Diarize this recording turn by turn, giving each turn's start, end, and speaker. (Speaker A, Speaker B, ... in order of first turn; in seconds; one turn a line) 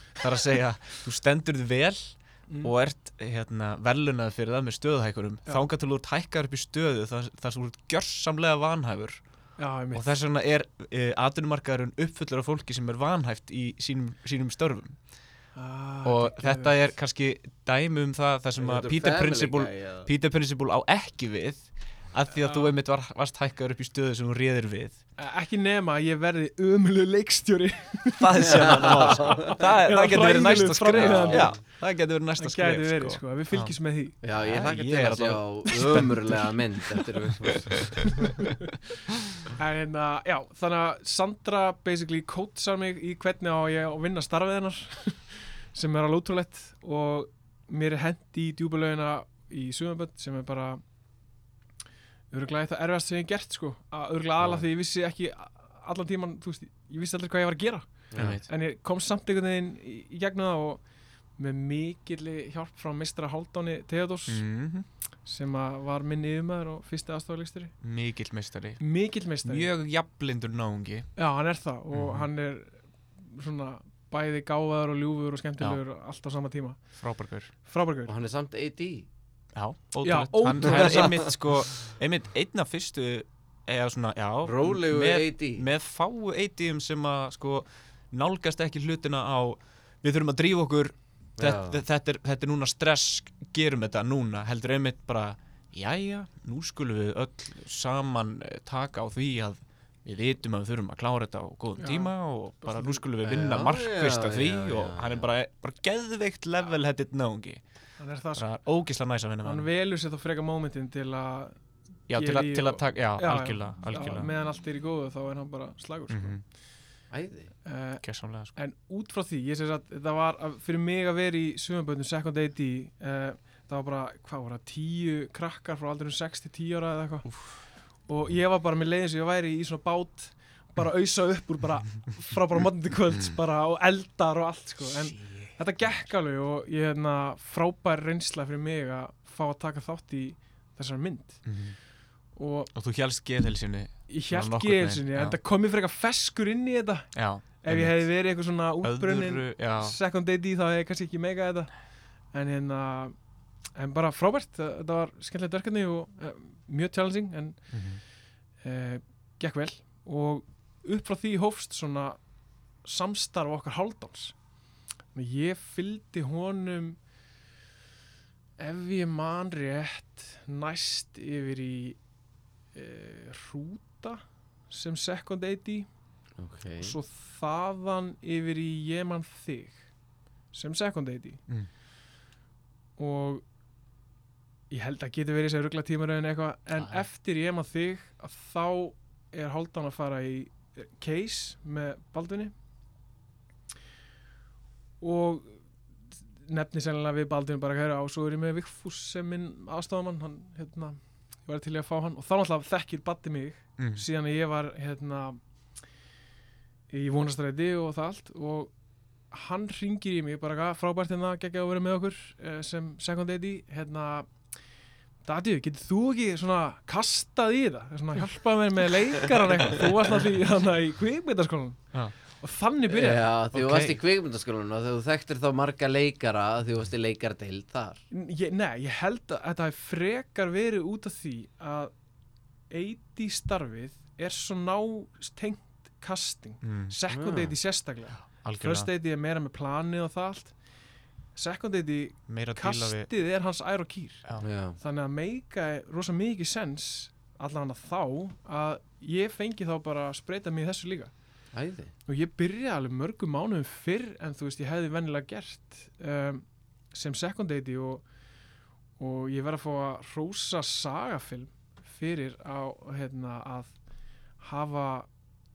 Speaker A: 0.2-9.2
Speaker B: 2.5-2.7
Speaker B: 9.6-10.1
Speaker A: 9.9-15.0
Speaker B: 15.6-16.8
Speaker A: 16.0-25.0
Speaker C: 18.6-20.1
Speaker B: 22.3-22.7
Speaker B: 25.2-31.6
Speaker A: 28.2-33.7
Speaker C: 28.4-29.5
Speaker C: 30.9-31.6
Speaker B: 32.4-34.2
Speaker C: 34.2-38.1
Speaker A: 34.4-36.5
Speaker A: 37.2-38.4
Speaker B: 39.5-50.8
Speaker B: 52.3-60.8
Speaker C: 58.1-58.4
Speaker A: 58.2-58.5
Speaker B: 61.4-64.4
Speaker A: 64.3-64.9
Speaker B: 65.2-67.7
Speaker A: 67.8-68.8
Speaker B: 68.8-69.7
Speaker A: 69.4-71.1
Speaker B: 71.2-76.8
Speaker A: 71.9-72.3
Speaker A: 77.0-77.5
Speaker B: 77.6-78.1
Speaker C: 78.1-79.1
Speaker A: 79.5-107.6
Speaker B: 80.0-81.2
Speaker C: 80.7-81.2
Speaker C: 84.4-85.7
Speaker C: 91.4-91.8
Speaker B: 101.8-103.0
Speaker C: 103.2-105.3
Speaker B: 108.0-108.4
Speaker A: 108.4-109.7
Speaker B: 109.4-111.5
Speaker A: 112.1-114.3
Speaker B: 112.1-116.4
Speaker A: 116.1-116.4
Speaker C: 117.1-117.5
Speaker B: 117.7-118.0
Speaker A: 118.0-118.5
Speaker B: 118.5-127.5
Speaker A: 127.3-127.6
Speaker B: 128.1-141.5
Speaker A: 134.9-136.1
Speaker A: 141.4-141.8
Speaker B: 142.3-142.7
Speaker A: 142.7-145.4
Speaker B: 144.1-151.7
Speaker A: 147.2-150.0
Speaker B: 152.3-153.1
Speaker B: 153.8-157.7
Speaker A: 157.7-158.0
Speaker B: 158.6-162.2
Speaker B: 162.8-164.4
Speaker B: 165.1-167.0
Speaker B: 168.6-172.0
Speaker B: 172.7-175.9
Speaker C: 176.4-177.0
Speaker B: 176.8-179.8
Speaker B: 180.5-181.4
Speaker B: 183.0-183.4
Speaker B: 184.7-192.5
Speaker B: 195.0-195.6
Speaker B: 196.4-205.4
Speaker A: 203.8-204.1
Speaker B: 206.9-208.7
Speaker B: 209.3-214.3
Speaker B: 215.2-223.3
Speaker C: 222.9-228.0
Speaker A: 223.5-224.0
Speaker B: 228.1-231.9
Speaker B: 232.7-240.6
Speaker A: 236.6-236.9
Speaker C: 237.1-237.6
Speaker A: 238.2-238.9
Speaker B: 241.4-251.1
Speaker A: 242.3-243.1
Speaker C: 244.4-244.8
Speaker C: 251.5-251.9
Speaker B: 252.1-258.0
Speaker B: 259.0-263.8
Speaker B: 264.4-265.1